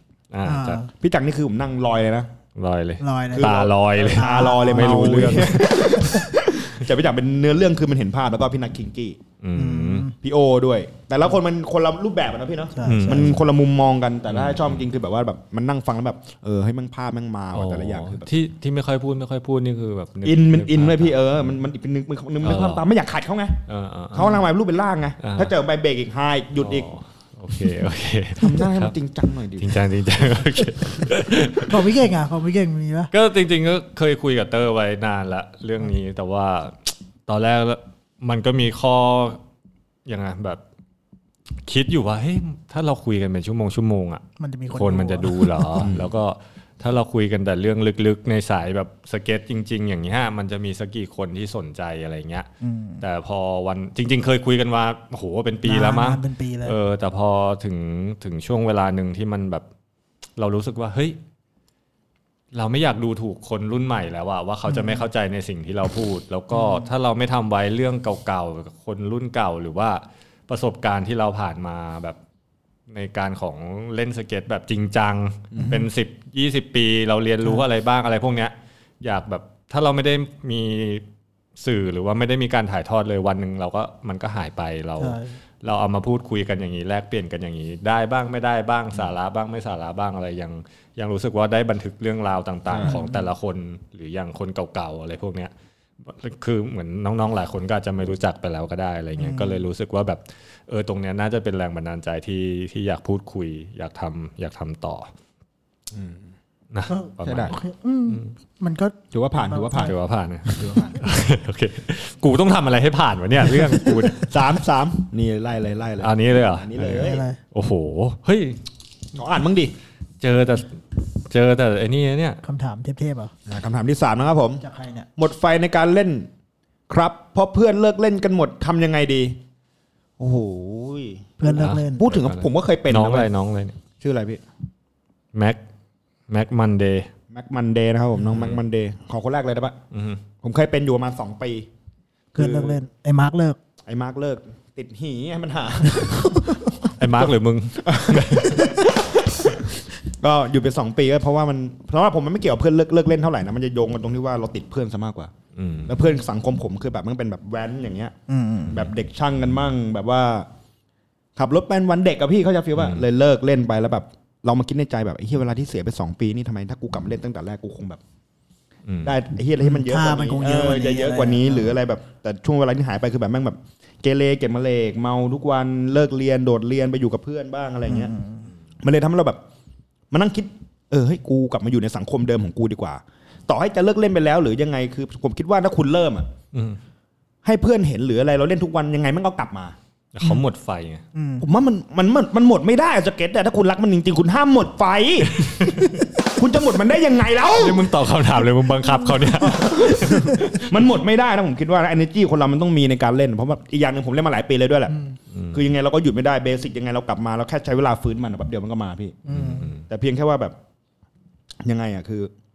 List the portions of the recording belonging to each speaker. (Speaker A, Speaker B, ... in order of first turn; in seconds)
Speaker A: 0.3-0.8, 2.5-5.6, 9.4-10.1, 12.8-13.4, 14.3-14.8, 17.5-21.3, 22.4-22.8, 23.7-24.3, 25.2-25.5, 26.6-28.9, 29.6-31.9, 33.1-39.4, 40.0-40.6, 41.6-52.5, 53.0-59.6, 60.4-61.2, 62.5-72.2, 72.9-81.0, 81.6-105.1, 106.7-107.6, 109.7-114.3, 116.0-118.6, 120.2-122.4, 131.5-133.8, 135.3-135.6, 136.3-137.1, 138.3-138.6, 139.9-140.2, 147.0-148.7, 155.5-155.9, 162.8-163.0, 168.9-169.1, 186.5-186.8, 190.1-191.0, 195.3-195.9, 197.5-200.7, 205.3-205.6, 209.3-209.8
Speaker B: 0.4-0.9, 3.0-3.5, 4.1-5.4, 9.5-10.1, 12.7-13.4, 31.5-33.1, 44.4-45.9, 52.6-53.0, 55.6-56.7, 64.7-65.0, 66.5-66.9, 75.5-75.8, 85.0-85.3, 92.8-93.2, 99.2-99.7, 106.9-109.9, 117.0-117.4, 122.4-123.3, 124.6-125.1, 131.4-132.1, 142.3-143.6, 158.3-158.9, 169.6-171.7, 177.9-178.5, 191.1-191.4, 199.5-200.3, 204.9-205.2, 209.2-209.7
Speaker C: 0.9-2.3, 3.3-9.2, 10.2-18.3, 20.2-26.9, 28.4-29.8, 45.8-46.1, 75.5-75.8, 92.7-93.0, 105.9-106.3, 107.2-107.6, 109.1-109.9, 110.5-111.0, 114.1-117.2, 119.1-119.7, 123.5-124.6, 125.2-126.3, 126.9-129.4, 130.2-131.3, 131.9-133.3, 134.0-134.4, 137.3-139.8, 140.4-141.7, 142.3-142.8, 143.8-147.2, 147.8-155.3, 155.8-158.1, 158.7-160.5, 161.3-168.0, 169.0-178.1, 178.8-179.4, 180.1-186.3, 187.4-189.8, 191.4-195.5, 196.4-198.0, 199.4-204.9, 205.5-209.2, 209.9-210.6, 211.6-212.3